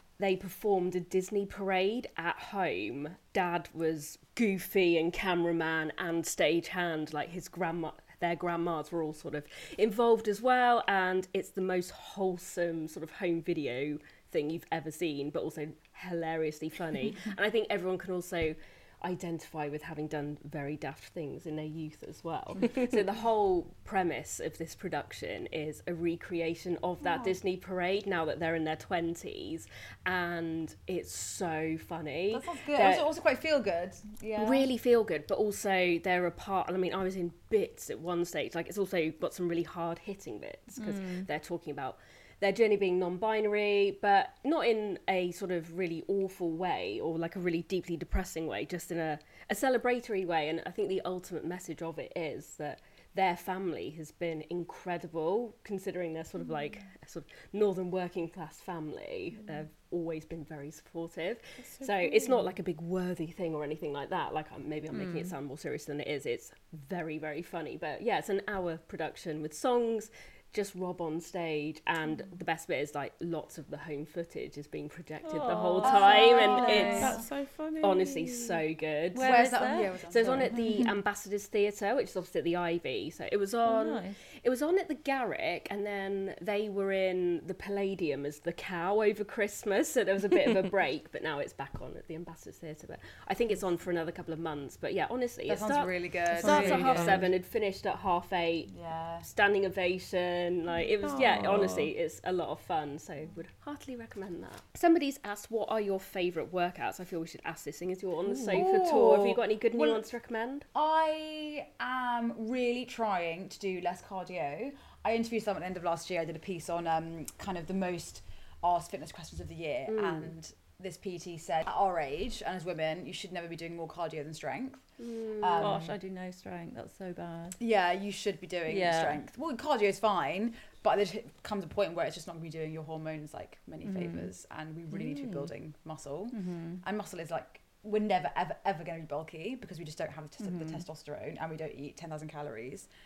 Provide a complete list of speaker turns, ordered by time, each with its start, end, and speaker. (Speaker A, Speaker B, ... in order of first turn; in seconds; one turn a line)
Speaker A: 0.2-33.0
Speaker B: 32.3-34.7
Speaker A: 34.3-77.2
Speaker C: 40.8-41.3
Speaker D: 61.6-62.6
Speaker C: 64.9-65.3
Speaker C: 75.2-77.2
Speaker B: 75.8-76.5
Speaker D: 76.2-78.6
Speaker A: 77.8-110.7
Speaker C: 79.1-80.6
Speaker B: 79.2-80.6
Speaker C: 83.7-84.2
Speaker B: 95.5-97.3
Speaker C: 96.3-97.2
Speaker D: 96.5-97.2
Speaker B: 98.7-99.3
Speaker D: 101.0-101.9
Speaker D: 108.3-108.7
Speaker B: 108.5-110.1
Speaker B: 110.7-125.9
Speaker A: 119.9-120.3
Speaker A: 125.0-125.8
Speaker C: 125.6-127.6
Speaker B: 127.6-142.9
Speaker C: 128.7-129.2
Speaker C: 133.8-134.3
Speaker C: 136.3-136.8
Speaker C: 140.4-140.8